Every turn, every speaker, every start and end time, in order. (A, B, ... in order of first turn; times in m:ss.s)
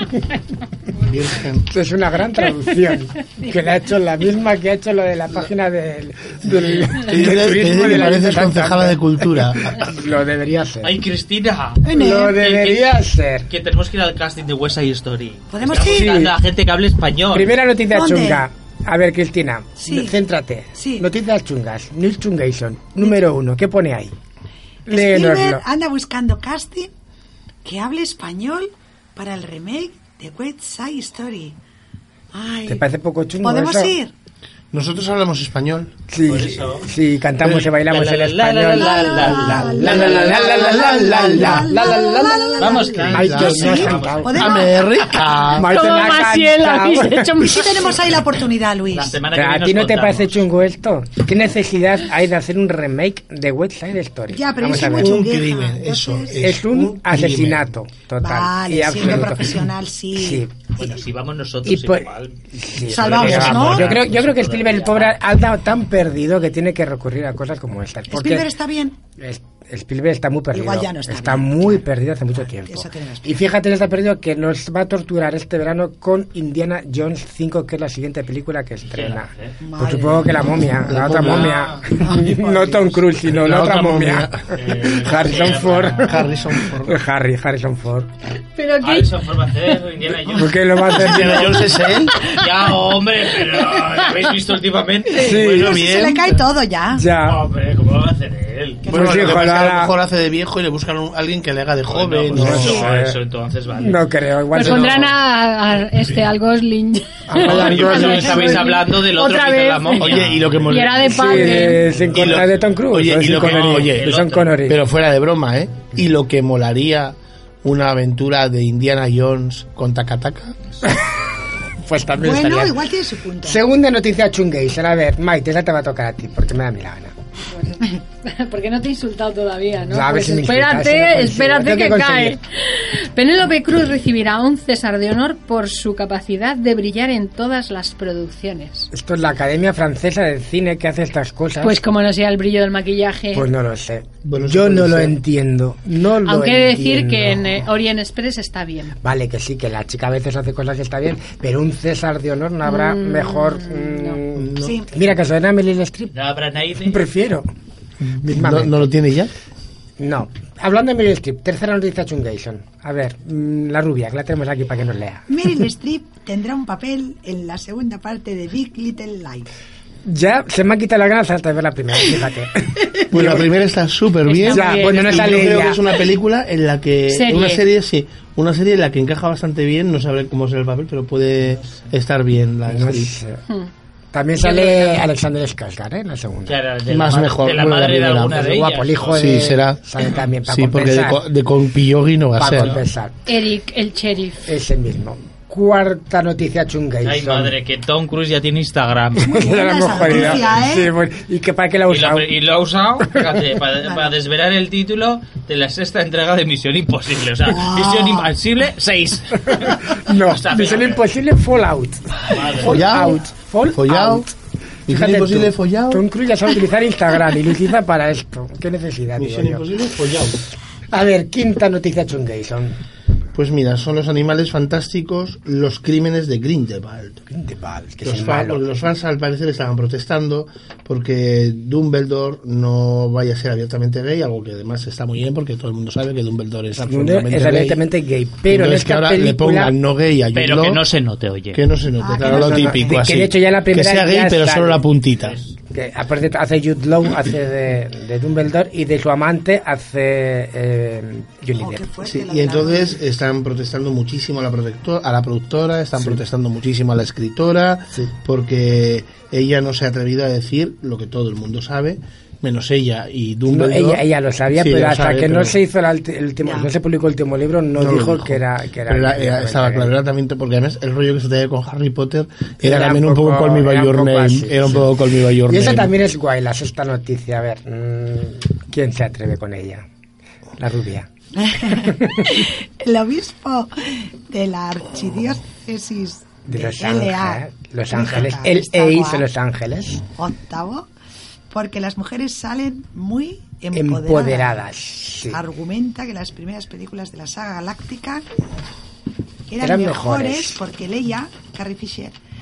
0:01.0-0:01.7 A
0:01.7-0:11.0 B
0:06.9-0:09.8 A
0:10.8-0:17.5 C
0:11.8-0:12.3 D
0:11.9-0:13.5 B
0:15.5-0:16.3 D
0:15.9-0:16.3 B
0:17.3-0:24.2 B
0:17.9-0:18.5 D
0:19.8-0:20.2 D
0:20.8-0:21.1 D
0:24.9-0:25.6 B
0:24.9-0:26.9 D
0:27.6-0:31.6 D
0:32.3-0:32.8 D
0:32.7-0:33.9 B
0:33.4-0:34.1 D
0:34.7-0:35.9 A
0:36.1-0:44.5 B
0:36.2-0:36.9 C
0:37.5-0:40.6 C
0:38.7-0:45.3 D
0:39.8-0:41.9 A
0:42.6-0:44.6 C
0:42.9-0:45.8 A
0:45.4-0:47.6 B
0:45.5-0:48.0 E
0:47.4-0:49.2 D
0:48.9-0:50.4 C
0:49.3-0:55.2 B
0:54.3-0:56.5 D
0:54.7-0:57.7 A
0:56.3-1:00.5 B
0:58.2-1:01.0 D
1:00.8-1:05.2 C
1:01.6-1:08.5 B
1:02.8-1:04.0 D
1:08.1-1:09.0 D
1:09.2-1:26.2 B
1:10.5-1:13.4 D
1:18.9-1:19.5 C
1:19.6-1:20.9 D
1:20.9-1:21.8 A
1:21.2-1:21.8 C
1:21.9-1:23.0 D
1:23.2-1:27.0 A
1:24.6-1:26.5 C
1:26.9-1:28.1 B
1:28.6-1:29.3 E
1:28.8-1:31.4 C
1:30.3-1:31.6 B
1:30.9-1:32.2 A
1:32.2-1:36.3 C
1:35.1-1:35.8 B
1:35.1-1:37.1 D
1:36.9-1:37.4 B
1:37.2-1:38.9 C
1:38.9-1:42.8 A
1:38.9-1:39.9 B
1:41.9-1:44.1 C
1:42.4-1:43.2 B
1:43.8-1:45.1 B
1:44.5-1:51.8 E
1:47.3-1:48.6 B
1:47.4-1:51.0 C
1:50.0-1:54.1 A
1:51.1-1:54.8 B
1:51.8-1:52.5 C
1:53.2-1:54.6 C
1:54.7-2:00.6 A
2:01.8-2:02.8 B
2:02.2-2:03.6 D
2:03.4-2:07.1 B
2:07.5-2:18.9 E
2:09.9-2:12.4 B
2:18.9-2:21.8 B
2:21.6-2:23.5 E
2:23.3-2:27.5 B
2:24.2-2:25.2 A
2:26.2-2:29.0 E
2:29.0-2:36.2 B
2:32.6-2:34.2 E
2:34.4-2:34.8 A
2:34.6-2:34.9 D
2:36.1-2:37.0 C
2:36.8-2:37.5 B
2:38.0-2:39.3 A
2:38.2-2:38.9 B
2:40.0-2:45.3 B
2:45.3-2:49.5 D
2:50.1-2:53.5 B
2:53.1-3:03.2 A
2:54.2-2:55.8 E
2:54.5-2:55.8 B
2:57.1-2:57.6 E
3:02.7-3:03.4 B
3:04.1-3:06.6 B
3:04.4-3:05.1 E
3:06.5-3:09.4 C
3:06.9-3:08.5 A
3:08.3-3:11.2 B
3:09.1-3:09.8 A
3:10.5-3:12.8 A
3:12.4-3:13.3 B
3:13.3-3:14.4 E
3:14.5-3:17.6 B
3:17.0-3:19.4 C
3:19.2-3:20.9 D
3:19.3-3:22.3 B
3:20.0-3:20.5 C
3:21.9-3:31.0 C
3:23.8-3:24.1 D
3:27.4-3:28.3 D
3:29.5-3:34.3 B
3:32.2-3:33.0 C
3:32.6-3:33.2 A
3:33.7-3:34.3 A
3:34.9-3:36.0 A
3:34.9-3:39.7 B
3:39.2-3:40.4 A
3:40.9-3:42.8 B
3:43.3-3:47.3 A
3:47.3-3:48.6 B
3:48.0-3:57.9 A
3:56.8-3:59.7 B
3:58.5-4:00.8 A
4:00.3-4:01.6 C
4:01.5-4:05.4 A
4:02.0-4:02.9 D
4:02.2-4:04.8 B
4:05.2-4:05.5 C
4:05.7-4:11.9 B
4:11.6-4:13.0 D
4:12.0-4:25.6 A
4:23.5-4:30.0 B
4:26.4-4:26.7 D
4:27.8-4:35.9 A
4:32.6-4:34.9 B
4:35.5-4:39.8 B
4:40.6-4:41.1 B
4:41.4-4:49.3 D
4:41.7-4:42.4 B
4:46.5-4:50.0 B
4:48.0-4:48.3 C
4:50.0-4:50.9 D
4:51.5-4:54.6 D
4:53.7-4:55.4 B
4:55.3-4:58.3 D
4:59.5-5:02.1 D
4:59.6-5:00.6 B